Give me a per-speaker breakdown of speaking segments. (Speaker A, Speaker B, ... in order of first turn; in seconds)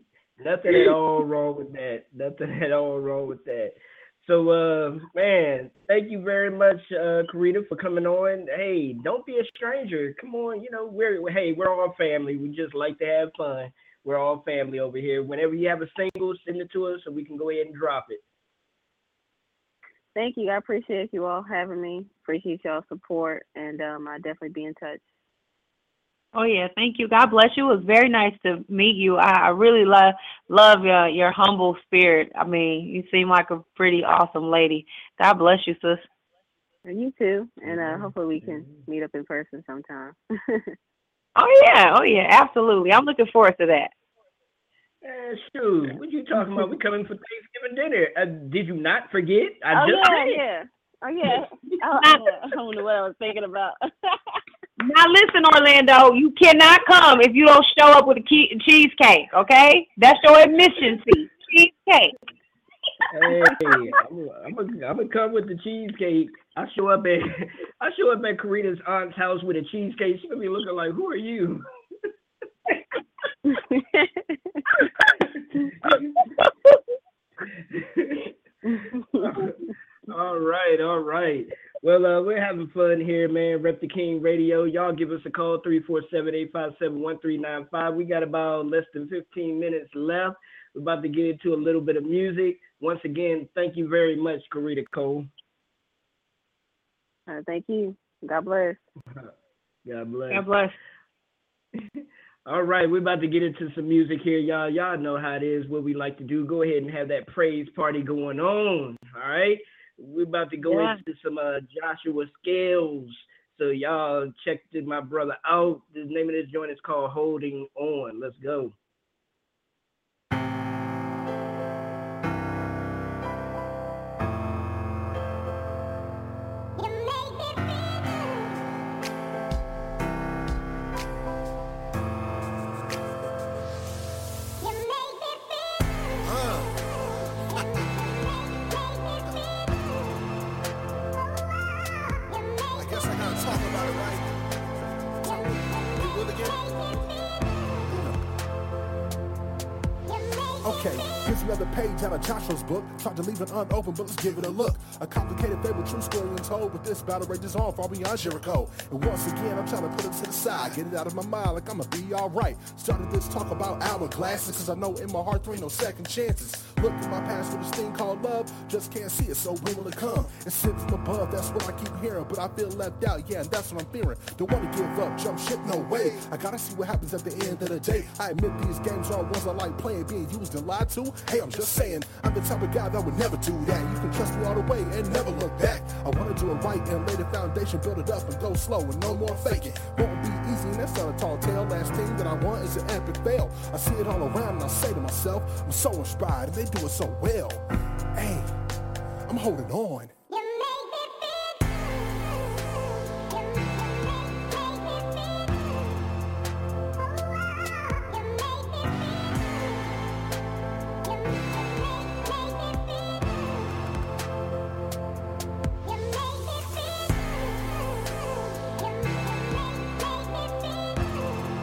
Speaker A: 0.4-18.2, 37.6-38.9, 45.0-50.5, 63.1-71.7, 75.8-76.1, 77.7-78.3, 79.2-79.6, 80.1-95.3, 99.9-100.5, 102.5-118.7
Speaker B: 0.7-0.9, 20.1-25.0, 36.9-40.6, 49.7-53.8, 73.5-74.1, 75.6-76.0, 78.7-79.5, 97.3-98.8
Speaker C: 26.3-36.0, 41.4-43.9, 54.8-62.1, 100.3-100.7, 110.6-111.0
Speaker D: 136.3-136.7, 142.8-147.1, 147.9-148.2, 150.6-198.5, 199.3-200.1